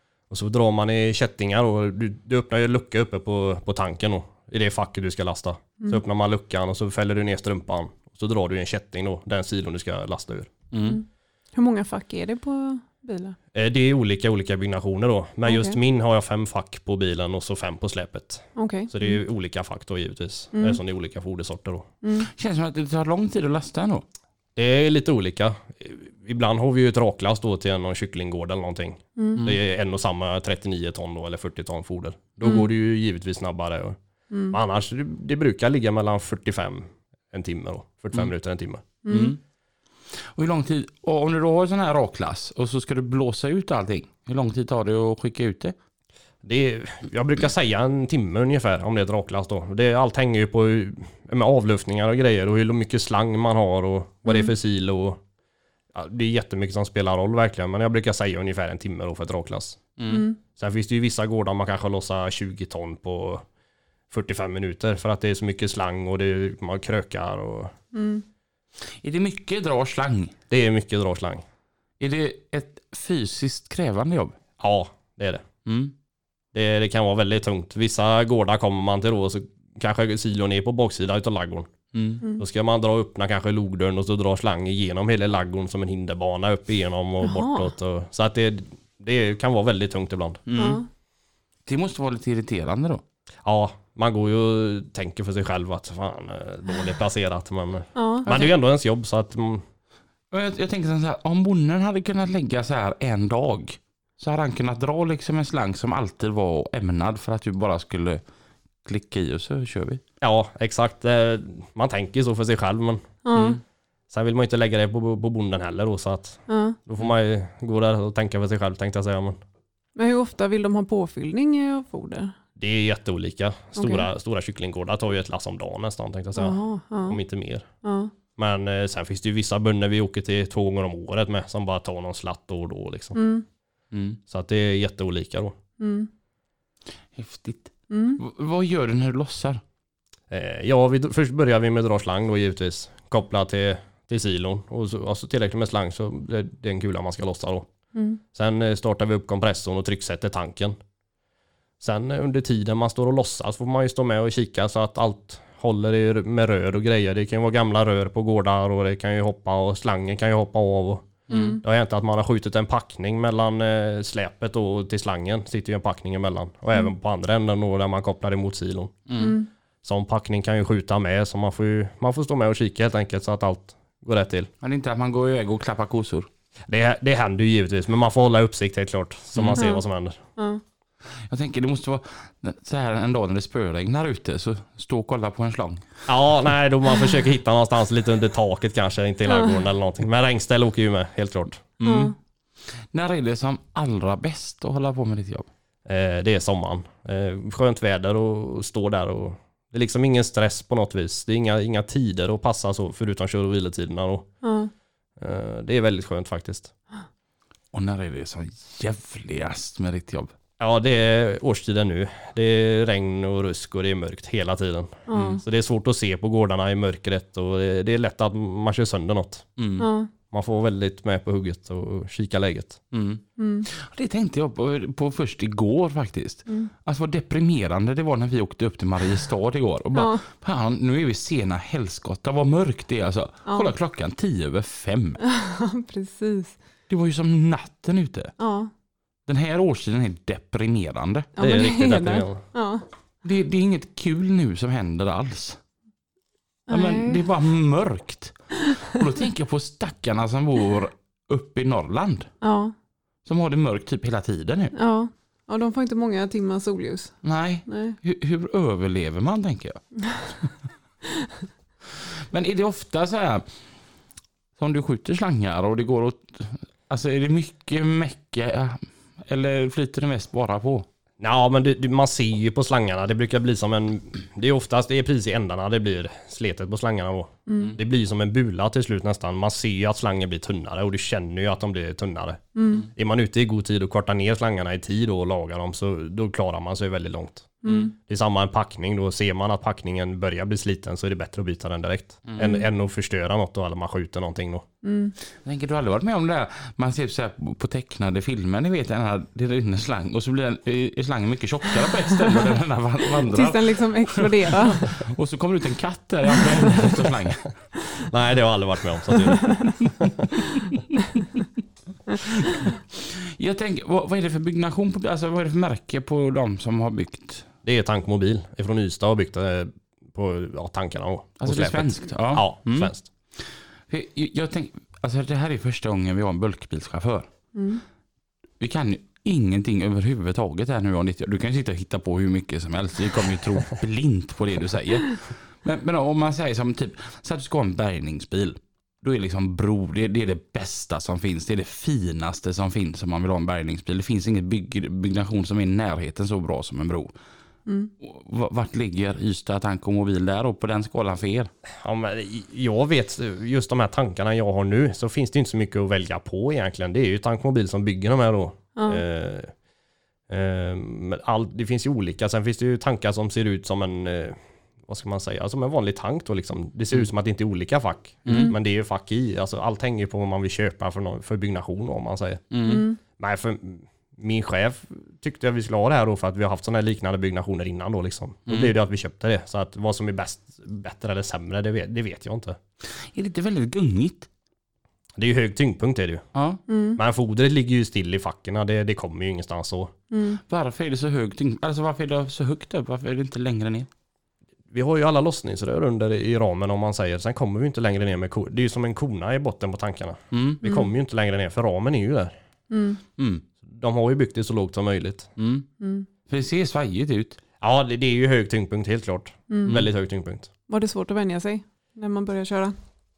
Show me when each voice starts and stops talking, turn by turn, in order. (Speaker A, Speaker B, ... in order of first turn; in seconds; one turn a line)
Speaker A: 0.3-10.5
Speaker B: 10.7-11.0
Speaker C: 11.5-13.3
Speaker A: 13.5-21.9
Speaker C: 15.4-15.8
Speaker C: 18.6-19.2
Speaker C: 20.5-20.8
Speaker C: 22.0-22.3
Speaker B: 22.2-24.0
Speaker A: 24.6-34.0
Speaker C: 29.2-29.4
Speaker C: 32.4-32.7
Speaker C: 34.3-34.6
Speaker A: 34.5-38.8
Speaker C: 39.0-39.4
Speaker B: 39.1-39.4
Speaker B: 40.2-45.7
Speaker A: 46.4-55.2
Speaker C: 54.2-54.5
Speaker A: 55.9-59.8
Speaker B: 60.0-60.2
Speaker C: 60.1-60.4
Speaker A: 60.6-63.4
Speaker A: 64.1-67.7
Speaker C: 67.9-68.2
Speaker B: 69.0-70.3
Speaker A: 70.5-71.4
Speaker B: 72.0-74.4
Speaker A: 74.6-75.4
Speaker B: 75.6-75.9
Speaker A: 76.5-81.7
Speaker B: 81.9-82.2
Speaker A: 82.4-90.4
Speaker C: 87.2-87.7
Speaker B: 90.5-90.8
Speaker C: 90.5-90.8
Speaker B: 91.7-93.0
Speaker A: 93.4-99.6
Speaker C: 98.0-98.5
Speaker B: 100.3-108.2
Speaker B: 108.8-110.0
Speaker A: 110.2-113.1
Speaker C: 113.2-113.6
Speaker B: 113.3-113.6
Speaker A: 114.1-119.4
Speaker C: 116.5-116.8
Speaker C: 120.0-122.3
Speaker A: 122.6-127.7
Speaker C: 123.8-124.1
Speaker C: 126.3-127.2
Speaker C: 127.8-128.1
Speaker A: 128.3-133.2
Speaker C: 133.1-133.4
Speaker B: 133.9-134.2
Speaker A: 134.3-135.6
Speaker C: 135.8-136.1
Speaker B: 137.1-139.6
Speaker C: 137.9-138.2
Speaker A: 140.3-147.7
Speaker C: 147.9-148.2
Speaker A: 148.3-150.8
Speaker A: 151.8-169.0
Speaker B: 161.3-161.6
Speaker C: 161.3-161.6
Speaker B: 169.1-169.4
Speaker C: 169.2-169.5
Speaker A: 169.8-174.5
Speaker B: 174.6-176.3
Speaker A: 176.7-180.2
Speaker B: 179.3-179.6
Speaker C: 179.6-179.8
Speaker B: 181.3-185.8
Speaker A: 186.1-191.7
Speaker B: 191.8-192.1
Speaker C: 191.8-192.1
Speaker B: 192.9-195.5
Speaker A: 195.8-204.3
Speaker C: 204.4-204.7
Speaker A: 205.2-206.7
Speaker B: 207.7-210.3
Speaker A: 210.6-219.5
Speaker C: 215.1-215.4
Speaker B: 215.1-215.4
Speaker B: 219.6-219.9
Speaker C: 219.8-220.1
Speaker A: 220.3-222.8
Speaker B: 222.9-235.2
Speaker C: 223.4-223.7
Speaker C: 229.9-230.2
Speaker C: 233.5-233.7
Speaker C: 235.2-236.6
Speaker B: 236.9-238.3
Speaker C: 238.4-238.7
Speaker B: 239.3-241.3
Speaker C: 241.3-242.8
Speaker A: 241.4-242.4
Speaker B: 243.2-245.6
Speaker C: 246.7-247.2
Speaker B: 246.7-252.3
Speaker C: 252.4-252.7
Speaker B: 253.2-254.7
Speaker C: 254.7-257.1
Speaker B: 257.2-259.8
Speaker C: 257.7-258.0
Speaker B: 262.0-263.4
Speaker B: 264.6-270.9
Speaker A: 271.2-294.6
Speaker C: 277.5-277.8
Speaker C: 282.5-282.9
Speaker C: 287.6-287.9
Speaker B: 287.6-287.9
Speaker C: 292.4-292.6
Speaker C: 294.8-295.1
Speaker B: 295.4-307.4
Speaker C: 303.2-305.0
Speaker A: 308.0-310.1
Speaker B: 312.2-317.5
Speaker A: 317.6-323.1
Speaker B: 321.4-327.3
Speaker C: 327.5-327.8
Speaker B: 328.6-347.1
Speaker B: 348.0-351.5
Speaker A: 351.8-359.5
Speaker C: 358.8-359.0
Speaker A: 360.3-372.4
Speaker B: 368.2-368.5
Speaker C: 368.3-368.6
Speaker B: 372.5-372.9
Speaker C: 372.6-373.0
Speaker A: 373.1-382.6
Speaker B: 378.5-378.7
Speaker B: 382.8-384.3
Speaker A: 385.2-386.2
Speaker B: 386.3-386.6
Speaker C: 386.7-387.0
Speaker A: 387.0-389.9
Speaker C: 390.1-390.4
Speaker B: 390.5-393.9
Speaker A: 394.7-402.3
Speaker B: 400.3-400.6
Speaker C: 400.6-400.9
Speaker C: 402.7-403.0
Speaker B: 403.2-403.4
Speaker A: 403.7-405.3
Speaker B: 405.4-405.6
Speaker C: 405.8-406.1
Speaker B: 406.3-407.4
Speaker A: 407.6-410.5
Speaker C: 409.5-409.8
Speaker C: 410.7-412.7